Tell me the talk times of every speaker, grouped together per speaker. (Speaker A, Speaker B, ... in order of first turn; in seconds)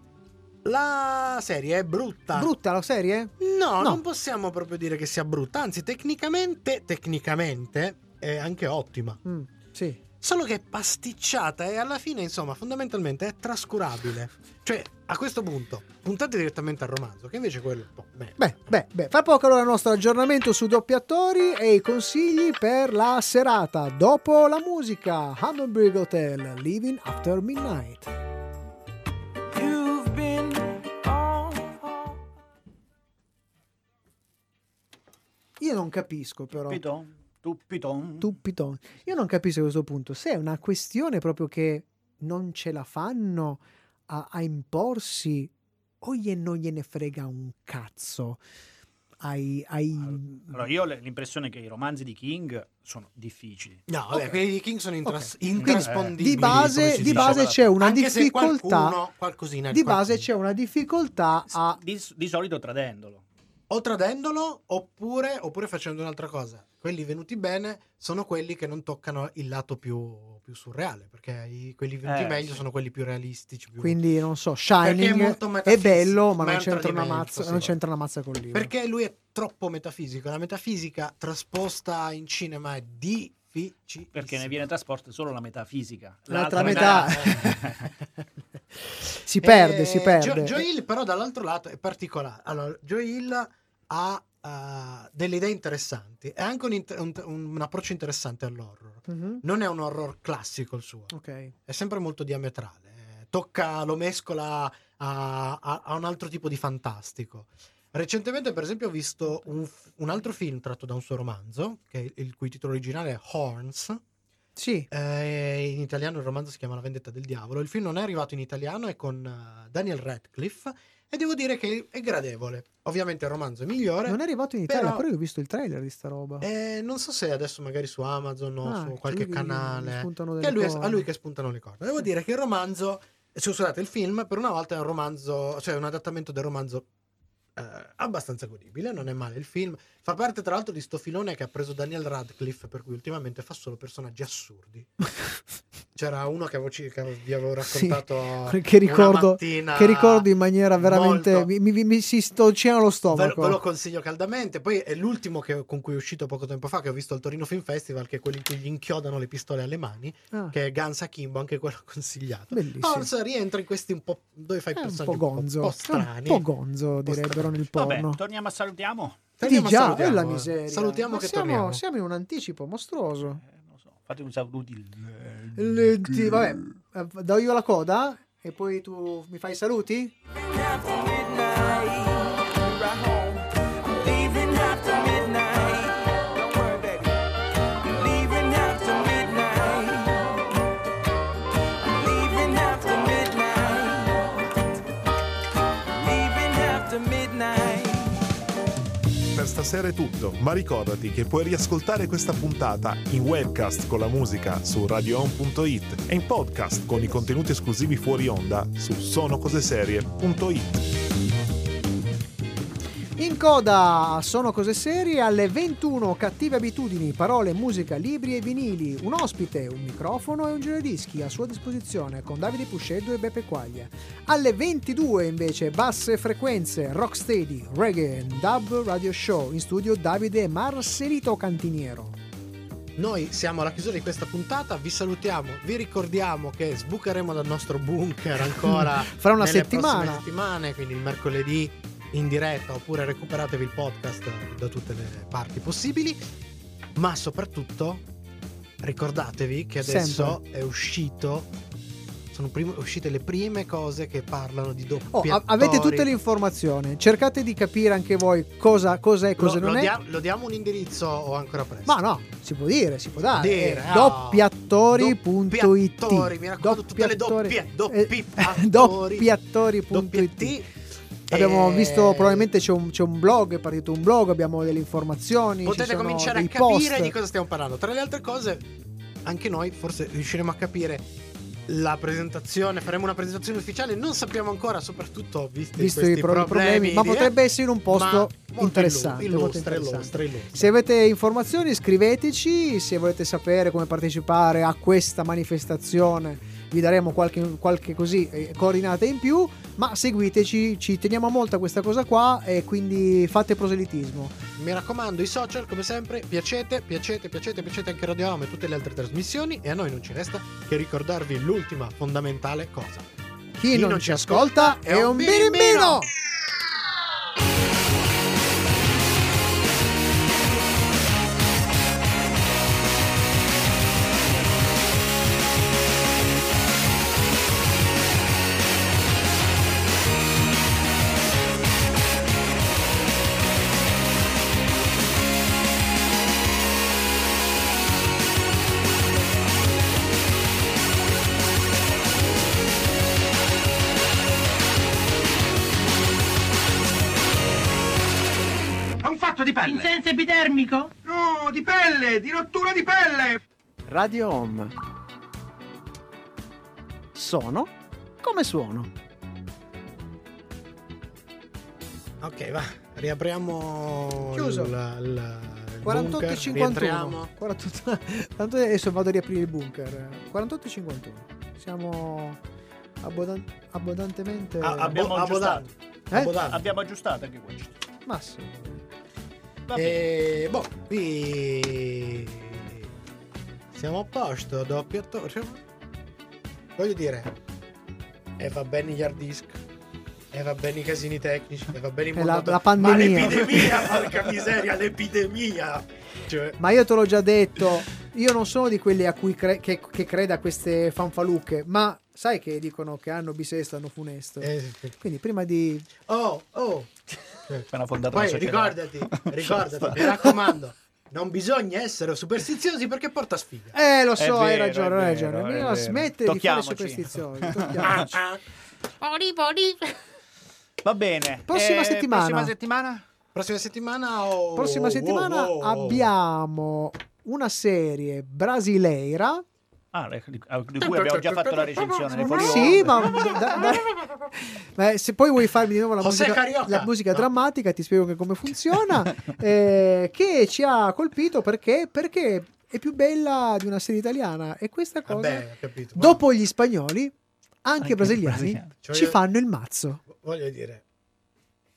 Speaker A: 0.6-2.5, 3.4-9.2, 10.2-18.5, 53.9-60.2, 63.7-74.0, 74.8-77.8, 78.5-84.5, 86.6-87.5, 89.4-101.1, 101.7-114.0, 114.9-125.0, 126.4-136.8, 137.6-144.9, 145.9-151.5, 153.1-166.4, 167.1-167.5, 169.4-171.8, 233.0-246.2, 246.9-248.0, 248.8-251.5, 252.3-256.1, 259.4-262.0, 263.3-269.3, 269.9-270.7, 271.3-272.5, 275.6-278.7, 279.2-281.1, 281.7-287.3, 287.9-290.7, 304.6-313.1, 313.7-316.1, 362.2-367.3, 374.6-376.7, 379.7-382.9, 383.7-385.6, 386.8-387.3, 388.4-389.6, 390.3-396.6, 404.4-405.0, 406.0-413.7, 417.8-418.4, 423.3-426.1, 430.8-433.7, 436.0-437.3, 445.1-446.2, 448.8-449.2, 450.1-450.8
Speaker B: 2.3-4.0, 9.2-10.0, 18.4-28.1, 35.6-36.8, 38.2-45.5, 46.0-48.4, 49.2-50.5, 55.0-59.0, 59.7-61.8, 73.8-78.7, 86.3-87.8, 89.2-90.6, 99.1-99.4, 101.1-101.5, 114.5-114.9, 124.1-126.4, 128.6-131.0, 147.6-153.6, 162.5-163.1, 164.8-168.2, 169.4-173.4, 175.6-180.1, 213.2-232.2, 238.6-240.2, 249.8-250.4, 255.1-259.9, 261.9-270.6, 271.3-277.1, 285.8-304.4, 313.6-316.1, 353.9-354.7, 357.1-358.9, 364.3-364.7, 365.8-372.4, 373.0-374.9, 378.1-378.8, 392.1-393.7, 396.6-405.9, 413.7-418.0, 421.5-422.5, 424.5-429.4, 432.2-450.0
Speaker C: 29.5-32.1, 180.4-187.2, 187.9-190.4, 191.8-194.4, 196.0-198.2, 349.0-353.4, 419.0-419.7
Speaker D: 36.5-38.3, 50.1-53.8, 55.6-57.8, 61.5-63.2, 72.0-72.6, 84.1-87.7, 167.7-169.3, 173.4-176.5, 374.8-375.6, 376.3-377.8, 379.7-380.0, 407.7-410.3, 414.2-418.1, 420.8-423.0, 429.9-433.1, 447.8-448.7
Speaker E: 199.3-210.8